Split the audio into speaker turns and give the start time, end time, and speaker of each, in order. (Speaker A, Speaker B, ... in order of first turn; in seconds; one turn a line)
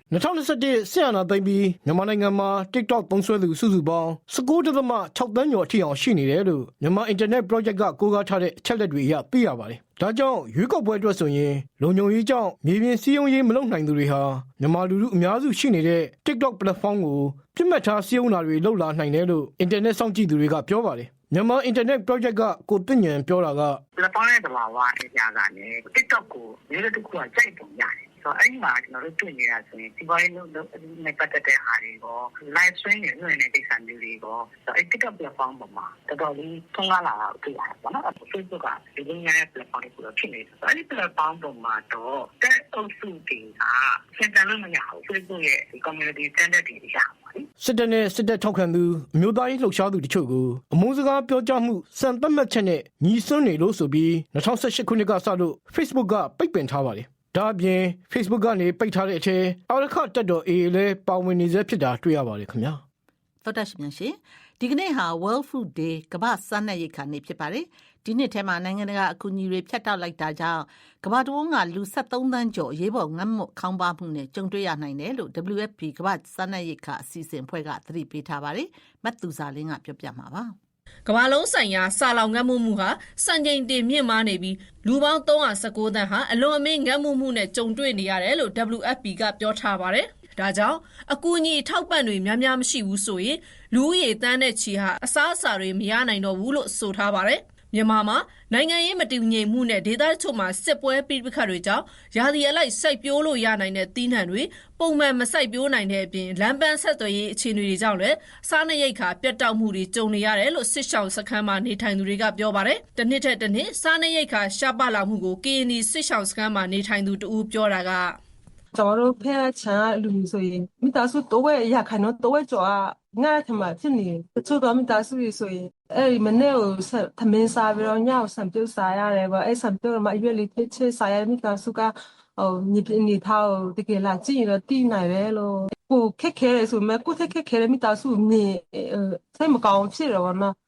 Speaker A: 0.1-23.8
Speaker B: 23.9-47.5
Speaker A: 47.6-62.8
Speaker C: 63.4-80.5
Speaker D: 81.0-118.2
Speaker E: 118.7-140.5